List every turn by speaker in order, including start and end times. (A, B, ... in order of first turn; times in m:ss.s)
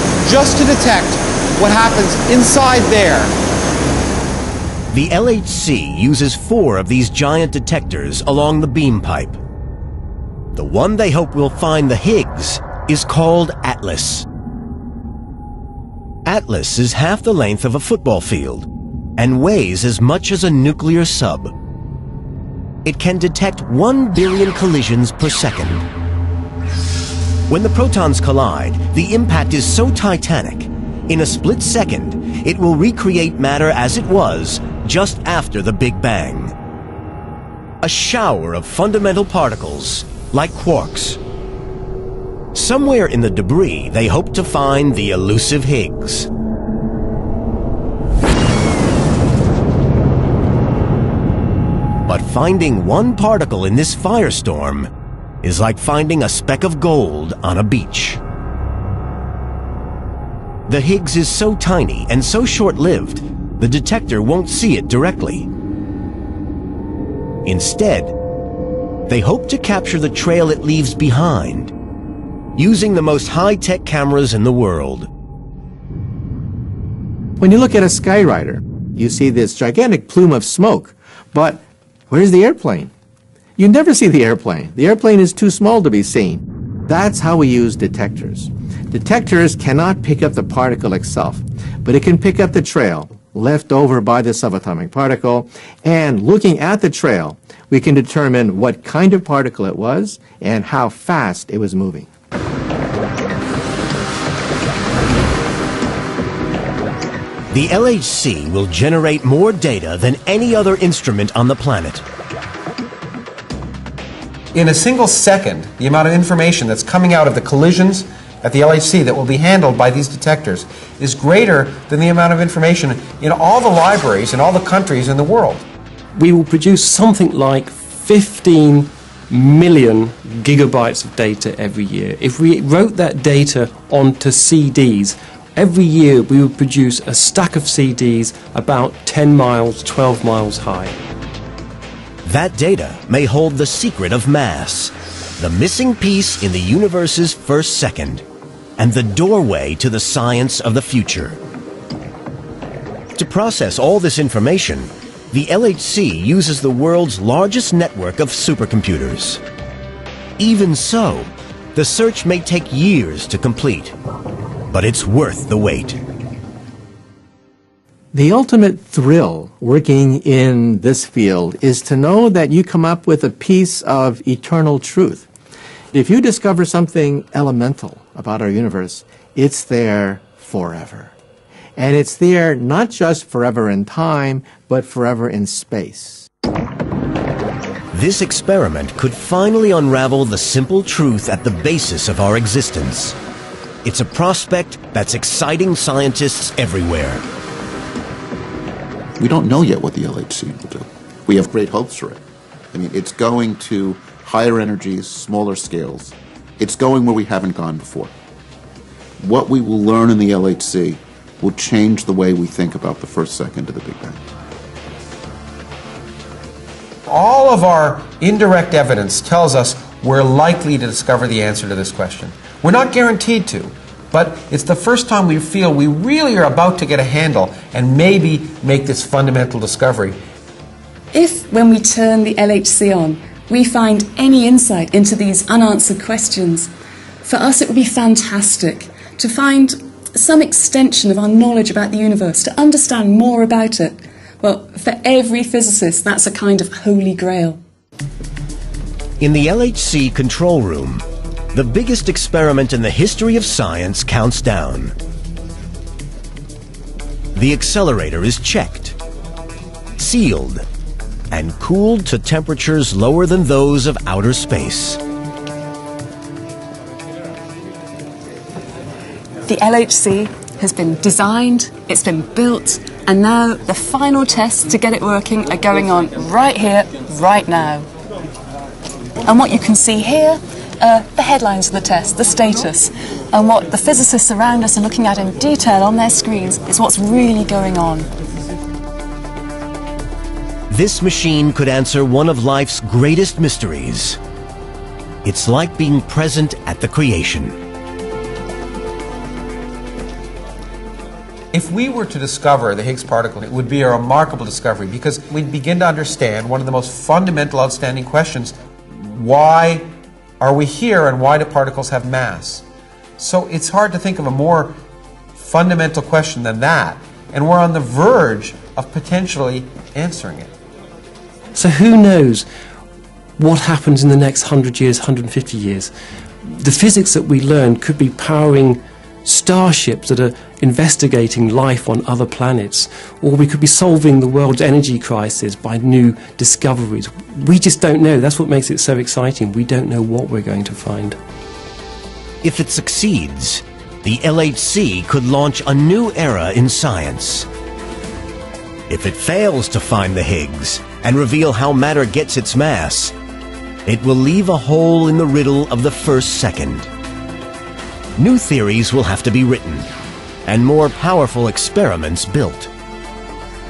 0:00.2-0:03.4 A
0:04.9-0:09.4 B
0:10.5-0:14.3 B
0:16.2-0:21.5 B
0:22.8-0:25.9 B
0:27.5-0:36.5 B
0:37.8-0:41.2 B
0:42.5-0:46.3 B
0:52.1-0:54.9 B
0:55.4-0:58.2 B
1:00.7-1:05.5 B
1:07.4-1:08.1 B
1:09.1-1:11.7 B
1:12.6-1:15.1 B
1:17.4-1:22.9 C
1:23.6-1:42.1 C
1:47.5-1:52.1 B
1:54.5-2:05.7 A
2:06.2-2:21.0 D
2:22.2-2:28.2 B
2:28.8-2:31.4 B
2:33.2-2:39.4 B
2:40.4-2:44.0 B
2:44.7-2:46.0 B
2:48.1-2:55.3 C
2:55.9-3:01.1 C
3:01.8-3:06.3 C
3:07.9-3:13.2 B
3:13.8-3:17.2 B
3:19.2-3:22.2 E
3:22.7-3:28.1 E
3:29.2-3:34.2 E
3:37.1-3:50.2 A
3:51.1-3:56.7 F
3:57.2-4:07.6 F
4:09.2-4:15.0 B
4:17.4-4:19.0 B
4:20.0-4:20.6 B
4:21.3-4:25.0 B
4:29.5-4:37.9 F
4:39.2-4:48.1 F
4:50.7-4:54.2 B
4:55.2-4:57.6 B
5:01.5-5:09.9 A
5:10.4-5:12.6 A
5:13.2-5:14.8 A
5:15.4-5:20.5 A
5:21.5-5:22.5 D
5:23.4-5:25.9 D
5:26.4-5:41.2 D
5:42.4-5:47.5 B
5:48.9-5:53.2 B
5:53.9-5:56.9 B
5:58.2-5:59.9 B
6:00.4-6:02.7 B